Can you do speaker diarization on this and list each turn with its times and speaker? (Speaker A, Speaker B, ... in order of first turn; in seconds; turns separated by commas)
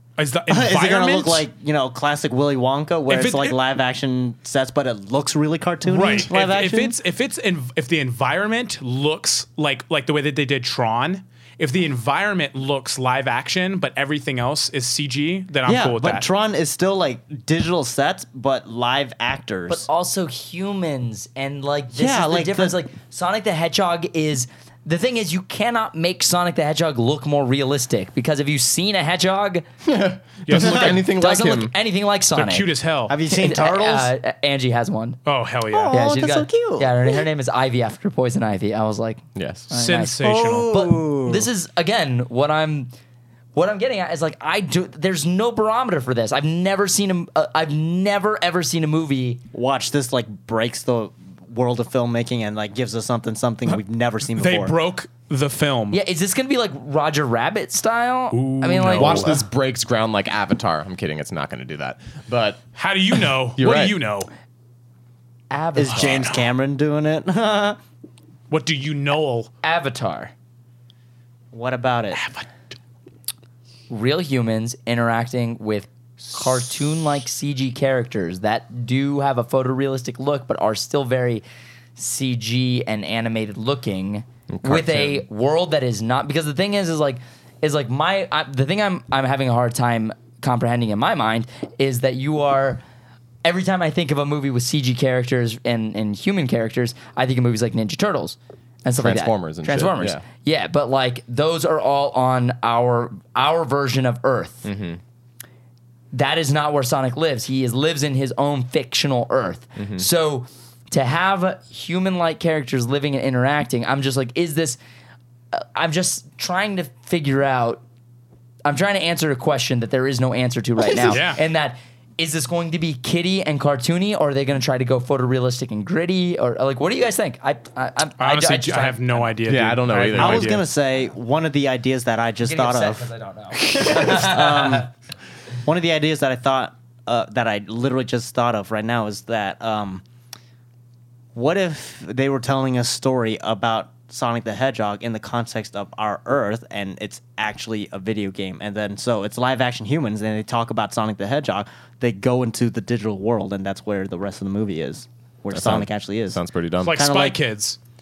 Speaker A: 0.2-1.5, Speaker B: 0.5-7.0, Speaker A: 3.1-3.6, Speaker A: 5.8-16.3, Speaker B: 15.7-19.9, Speaker C: 19.7-29.7, Speaker B: 21.9-22.8, Speaker D: 29.9-31.7, Speaker A: 30.5-31.1, Speaker C: 30.5-32.7, Speaker B: 30.6-30.9, Speaker A: 32.3-33.1, Speaker B: 33.1-34.1, Speaker C: 33.3-35.2, Speaker A: 35.3-36.0, Speaker B: 35.7-37.3, Speaker C: 35.9-42.9, Speaker D: 39.4-39.7, Speaker A: 39.7-40.7, Speaker B: 40.2-41.5, Speaker C: 43.5-49.4, Speaker B: 49.5-54.8, Speaker A: 54.4-56.0, Speaker C: 55.9-59.4, Speaker A: 58.3-59.4, Speaker D: 59.0-62.6, Speaker A: 62.8-64.3, Speaker D: 63.6-64.0, Speaker C: 65.5-66.2, Speaker B: 65.8-67.8, Speaker A: 65.9-66.5, Speaker A: 68.5-69.5, Speaker C: 69.6-70.3, Speaker B: 71.5-72.2, Speaker A: 72.1-72.5, Speaker C: 73.9-81.4, Speaker C: 82.0-92.8, Speaker D: 84.5-85.2, Speaker C: 93.4-104.7, Speaker D: 99.0-100.2, Speaker D: 104.7-105.0, Speaker C: 106.1-114.8, Speaker D: 109.8-110.1, Speaker C: 115.5-117.8, Speaker C: 118.7-129.4, Speaker B: 120.9-121.2, Speaker A: 121.1-121.4, Speaker A: 128.2-130.6, Speaker D: 129.4-130.6, Speaker B: 130.2-133.1, Speaker C: 132.4-134.9, Speaker B: 133.6-134.9, Speaker B: 135.6-140.0, Speaker B: 141.3-157.4, Speaker D: 155.5-157.0, Speaker A: 156.8-157.8